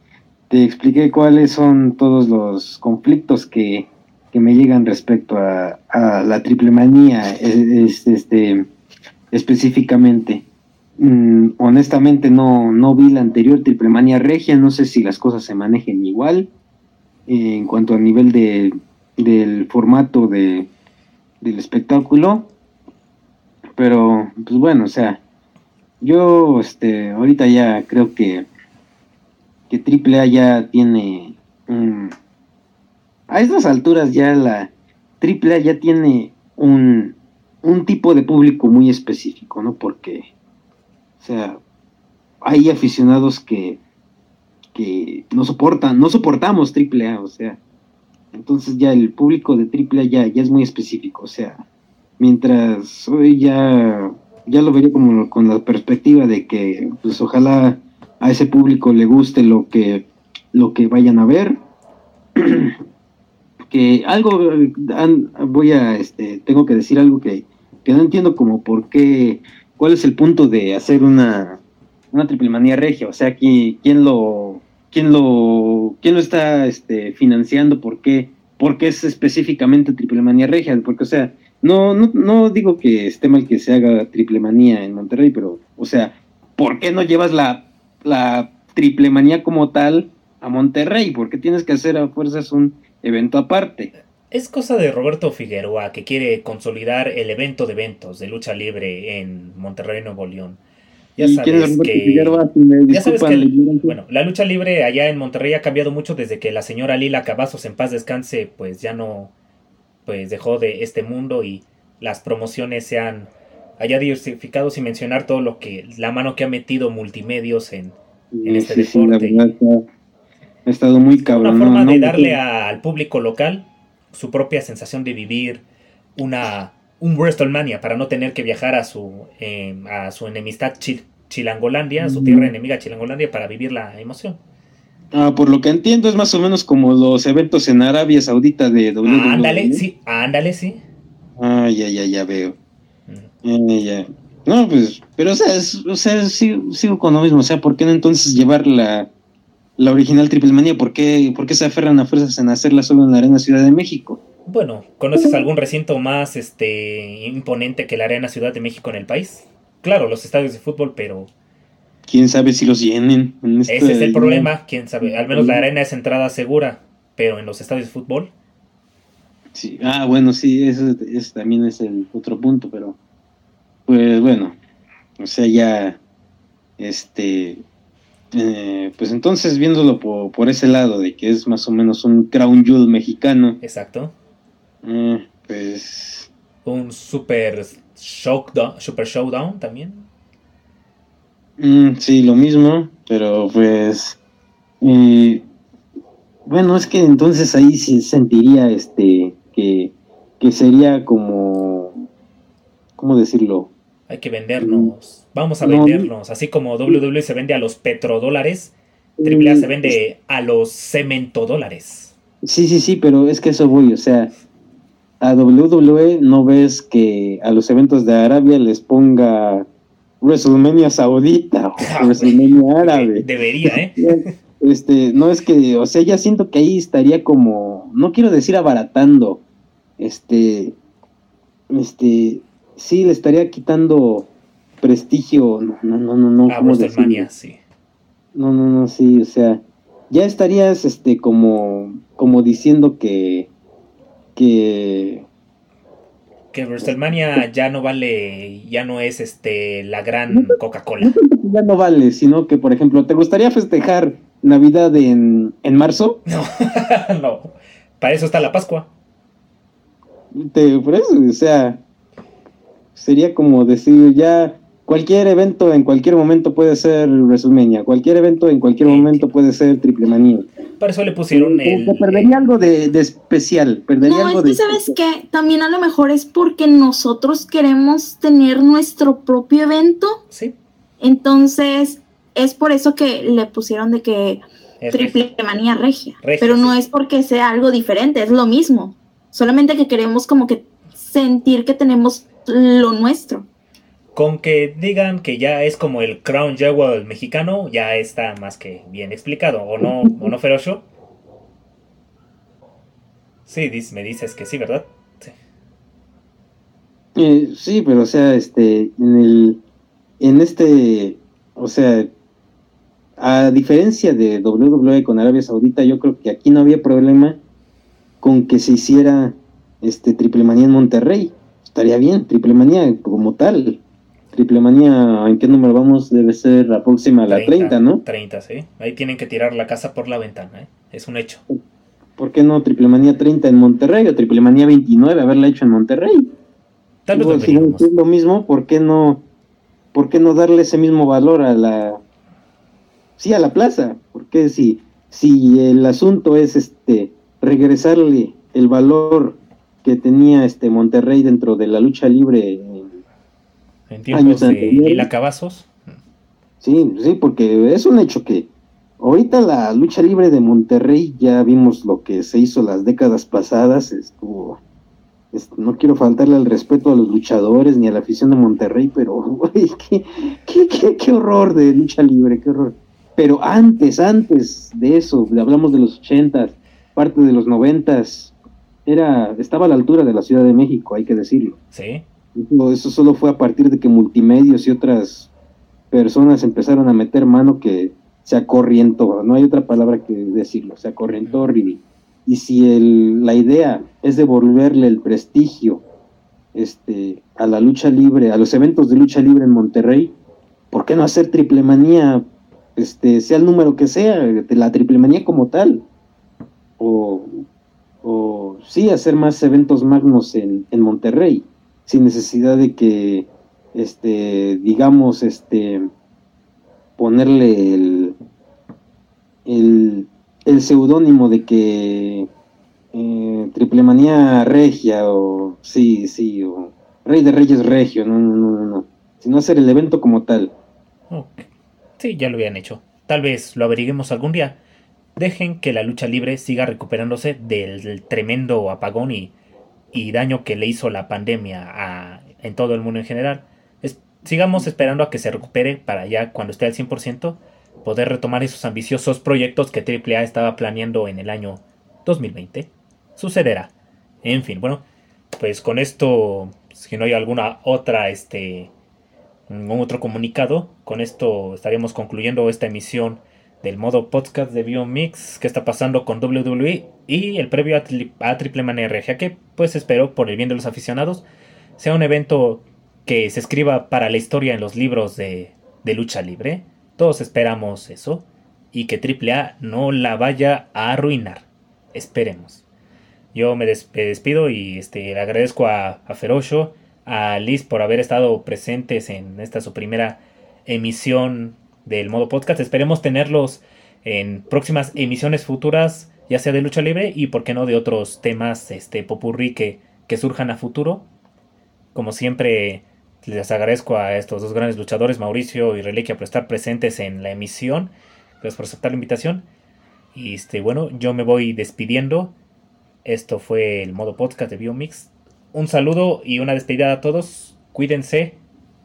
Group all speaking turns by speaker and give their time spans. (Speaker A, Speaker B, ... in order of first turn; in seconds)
Speaker A: 0.5-8.7, 9.3-10.4, 11.0-16.5, 17.3-20.7, 21.4-22.5, 23.8-25.2, 26.0-28.5, 29.7-32.1, 33.3-40.3, 41.2-41.6, 42.4-43.8, 44.7-47.6, 48.3-51.6, 52.2-61.6, 62.4-62.8, 63.7-71.6, 72.1-93.9, 101.2-104.0, 118.3-119.8, 120.7-122.4, 132.0-132.5, 135.1-139.8, 141.4-142.5, 143.4-149.1, 149.8-154.2, 162.1-164.5, 165.1-165.6, 169.5-173.0, 173.9-174.6, 175.2-176.0, 176.8-177.6, 178.3-183.6, 184.8-186.3, 191.6-194.2, 194.8-195.4, 196.4-201.9, 203.0-203.7, 204.6-204.9, 205.6-206.1, 209.2-210.0, 212.4-214.3, 215.2-219.7, 220.2-229.4, 230.0-230.8, 231.7-234.3, 234.8-237.2, 238.3-243.5, 244.3-245.2, 250.3-256.2, 260.4-261.8, 262.9-270.5, 271.3-274.9, 300.0-300.3, 307.1-309.6, 310.2-312.1, 313.2-317.4, 318.2-323.8, 324.3-328.0, 332.2-336.3, 337.1-339.2, 339.9-342.0, 343.2-353.0, 354.1-355.1, 356.6-358.5, 359.0-364.6, 365.3-378.3, 378.9-381.6, 382.4-385.3, 385.9-395.8, 396.5-400.1, 400.7-402.2, 402.8-405.8, 406.8-407.4, 408.0-415.9, 417.0-418.1, 419.4-422.3, 422.9-430.5
Speaker B: 94.3-100.6, 101.2-109.3, 110.0-119.5, 121.2-125.6, 126.2-134.4, 139.0-140.8, 154.5-161.3, 163.7-168.3, 183.6-184.1, 186.6-190.1, 204.1-212.1, 221.8-224.3, 236.5-237.6, 246.5-251.1, 256.2-258.9, 268.8-269.3, 270.8-272.5, 280.3-280.6, 284.8-285.2, 286.2-286.7, 294.1-300.8, 303.5-305.3, 327.3-331.4, 337.1-337.9, 353.9-356.0, 381.7-382.0, 431.1-431.4, 432.0-434.6, 435.1-439.3, 439.9-453.7, 454.2-454.8, 455.3-458.7, 459.5-471.2, 471.8-482.6, 483.3-501.1, 501.9-509.4, 510.1-512.3, 513.0-518.4
Speaker C: 274.0-280.2, 281.0-293.5